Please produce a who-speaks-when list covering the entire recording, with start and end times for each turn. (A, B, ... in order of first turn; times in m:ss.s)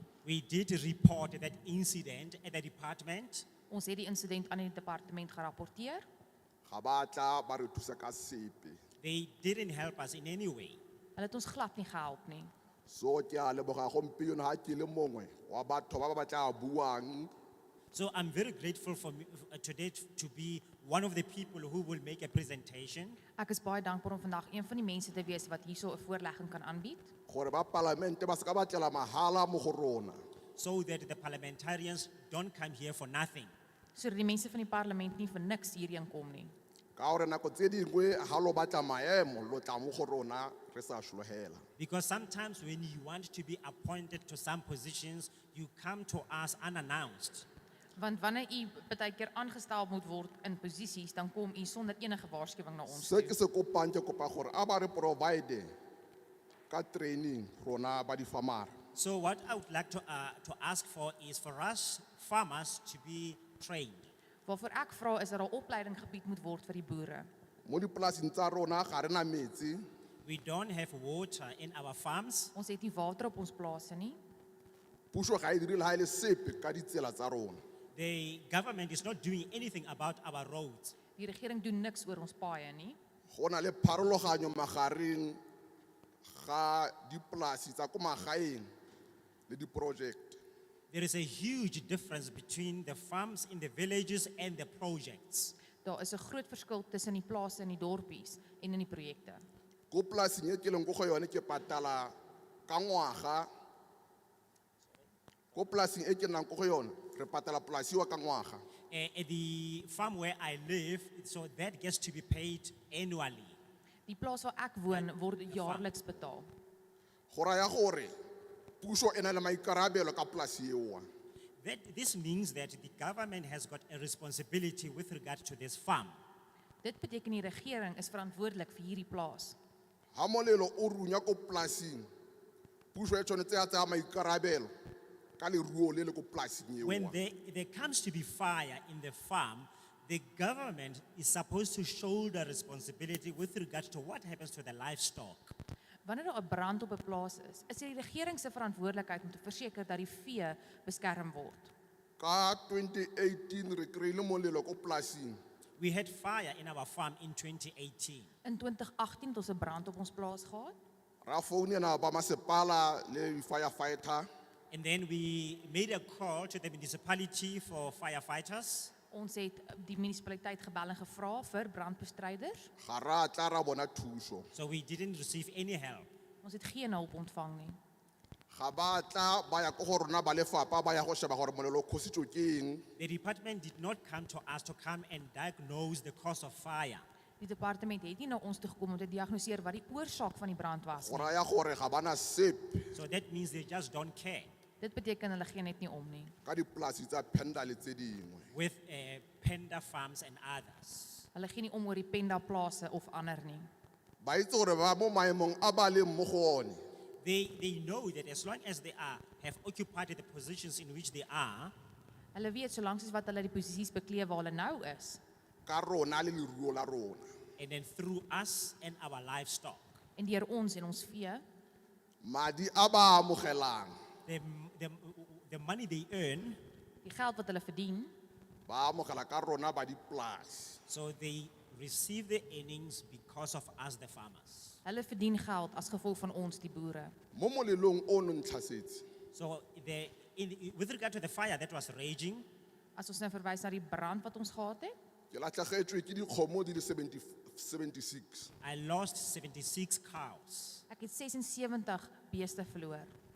0:00.2-0:03.5 A
0:03.7-0:06.1 B
0:06.7-0:08.8 C
0:09.0-0:10.8 A
0:11.2-0:12.5 B
0:12.9-0:17.3 C
0:17.9-0:23.2 A
0:23.4-0:27.1 B
0:27.3-0:30.2 C
0:30.6-0:33.5 A
0:34.0-0:36.5 B
0:37.0-0:41.6 C
0:41.8-0:47.5 A
0:48.0-0:53.4 B
0:52.9-0:55.7 C
0:56.7-0:58.8 C
0:59.0-1:04.1 A
1:04.5-1:07.3 B
1:07.7-1:09.8 C
1:10.2-1:12.5 A
1:12.5-1:14.2 B
1:15.1-1:17.6 C
1:18.0-1:21.0 A
1:21.2-1:23.0 B
1:23.3-1:25.4 C
1:26.3-1:28.7 C
1:29.5-1:30.4 C
1:30.9-1:35.6 A
1:35.8-1:39.4 B
1:39.9-1:42.1 C
1:42.7-1:43.5 C
1:45.5-1:48.6 C
1:48.9-1:53.6 A
1:54.1-1:56.5 B
1:54.9-1:55.9 A
1:57.3-1:58.1 C
1:58.8-2:01.1 C
2:01.6-2:06.2 A
2:06.8-2:09.6 B
2:10.1-2:12.1 C
2:13.0-2:14.7 C
2:15.4-2:17.2 C
2:16.8-2:25.5 A
2:26.0-2:31.7 B
2:32.2-2:35.4 C
2:35.8-2:38.3 A
2:38.4-2:40.8 B
2:41.2-2:44.3 C
2:44.7-2:48.9 A
2:49.1-2:52.7 B
2:52.8-2:54.5 C
2:54.5-2:56.1 A
2:56.4-2:57.8 B
2:58.5-3:02.8 C
3:03.0-3:07.0 A
3:07.4-3:11.4 B
3:11.0-3:12.9 C
3:12.9-3:14.5 A
3:14.8-3:16.3 B
3:16.4-3:18.5 C
3:18.5-3:21.2 A
3:21.3-3:23.7 B
3:24.2-3:26.8 C
3:27.2-3:31.7 A
3:32.4-3:35.2 B
3:35.7-3:37.3 C
3:37.6-3:39.8 A
3:40.2-3:41.4 B
3:42.2-3:44.0 C
3:44.3-3:46.6 A
3:47.0-3:48.1 B
3:48.7-3:50.8 C
3:50.9-3:54.8 A
3:54.8-3:57.1 B
3:57.3-3:59.0 C
3:59.3-4:02.5 A
4:03.0-4:05.0 B
4:05.3-4:08.5 C
4:08.6-4:10.8 A
4:10.9-4:13.1 B